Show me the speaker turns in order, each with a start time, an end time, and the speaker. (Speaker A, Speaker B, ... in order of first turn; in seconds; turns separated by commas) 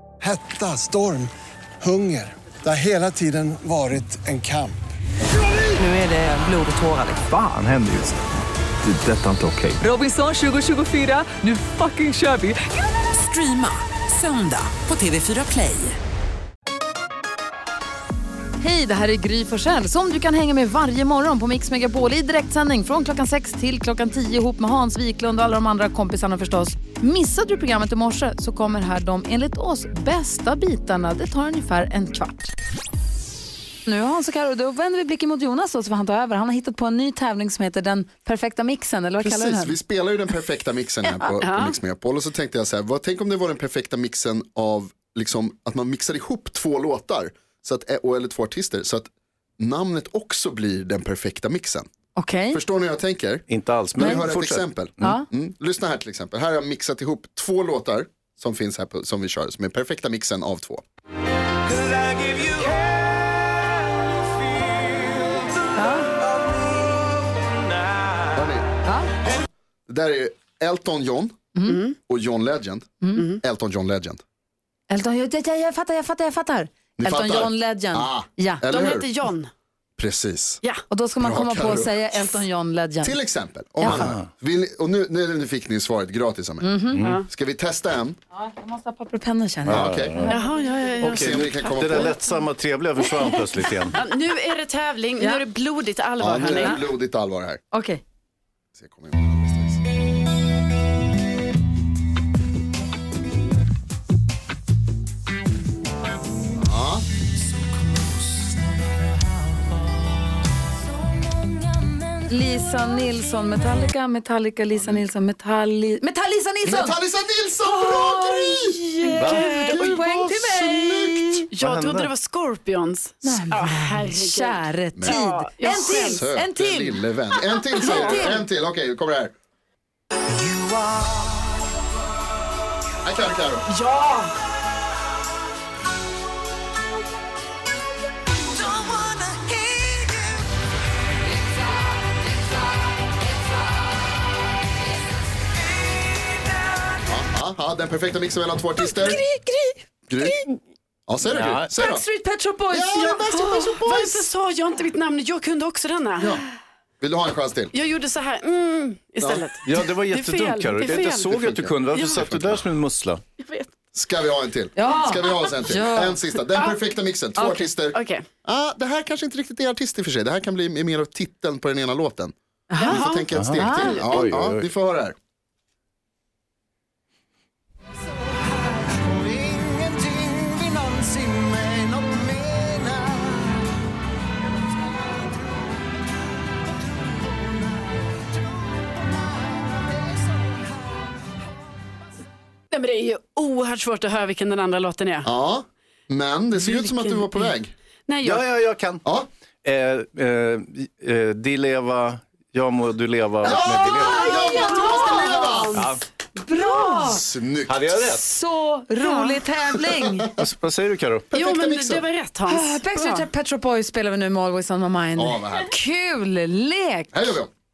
Speaker A: 0.2-4.8, Speaker B: 5.8-7.3, Speaker C: 7.1-8.1, Speaker C: 8.9-9.8, Speaker B: 9.8-16.0, Speaker D: 18.6-32.5, Speaker D: 33.9-39.8, Speaker E: 39.2-49.1, Speaker D: 41.0-41.3, Speaker F: 41.4-41.8, Speaker E: 49.6-51.9, Speaker D: 52.1-52.6, Speaker E: 52.5-60.8, Speaker C: 53.5-54.7, Speaker D: 54.0-54.4, Speaker D: 55.0-55.2, Speaker D: 65.8-66.1, Speaker E: 68.3-68.7, Speaker D: 68.8-69.1, Speaker E: 69.2-71.4, Speaker D: 71.5-71.8, Speaker F: 71.7-72.0, Speaker E: 72.1-74.2, Speaker D: 74.9-78.6, Speaker E: 77.0-79.1, Speaker F: 78.7-79.5, Speaker E: 80.0-80.6, Speaker D: 80.9-83.2, Speaker E: 81.2-81.9, Speaker E: 83.0-86.7, Speaker C: 83.8-84.2, Speaker D: 86.6-87.0, Speaker E: 87.3-88.2, Speaker D: 88.3-90.9, Speaker E: 89.7-90.2, Speaker C: 89.7-90.4, Speaker F: 90.3-92.1, Speaker C: 91.0-94.0, Speaker E: 91.0-92.2, Speaker F: 94.0-96.8, Speaker E: 96.2-97.6, Speaker D: 96.4-96.8, Speaker D: 97.7-98.0, Speaker E: 98.8-99.8, Speaker E: 106.6-107.0, Speaker D: 112.3-117.0, Speaker E: 114.7-115.0, Speaker E: 116.7-118.8, Speaker D: 117.6-121.5, Speaker F: 119.1-120.0, Speaker C: 119.2-119.4, Speaker E: 119.5-121.4, Speaker F: 121.5-126.2, Speaker C: 121.6-122.1, Speaker D: 123.2-127.0, Speaker E: 125.9-129.3, Speaker D: 127.7-128.4, Speaker F: 127.8-128.4, Speaker B: 130.5-131.2, Speaker E: 133.0-133.7, Speaker F: 133.7-134.3, Speaker E: 147.0-149.2, Speaker D: 148.8-150.4, Speaker E: 150.1-150.4, Speaker E: 151.1-152.1, Speaker C: 151.3-151.7, Speaker D: 151.8-153.3, Speaker E: 152.7-154.3, Speaker F: 152.9-156.4, Speaker E: 157.0-157.7, Speaker F: 157.7-162.3, Speaker C: 159.7-163.2, Speaker E: 161.3-162.6, Speaker F: 163.4-163.7, Speaker E: 163.9-175.2, Speaker D: 164.8-166.2, Speaker F: 167.9-168.2, Speaker D: 172.7-173.0, Speaker F: 172.8-174.1, Speaker C: 173.3-174.7, Speaker D: 173.6-174.0, Speaker A: 179.0-183.2, Speaker F: 192.7-195.3, Speaker E: 195.2-197.7, Speaker F: 196.6-197.6, Speaker F: 198.1-198.4, Speaker C: 198.2-199.0, Speaker C: 199.6-204.3, Speaker E: 203.4-205.8, Speaker D: 203.8-205.5, Speaker F: 204.1-206.0, Speaker C: 205.8-206.0, Speaker D: 206.4-207.2, Speaker E: 207.0-207.8, Speaker C: 207.7-208.2, Speaker D: 208.0-210.3, Speaker F: 209.0-209.4, Speaker C: 210.4-211.3, Speaker E: 211.3-212.0, Speaker F: 211.3-213.3, Speaker D: 212.5-217.1, Speaker E: 215.2-215.8, Speaker E: 217.1-217.5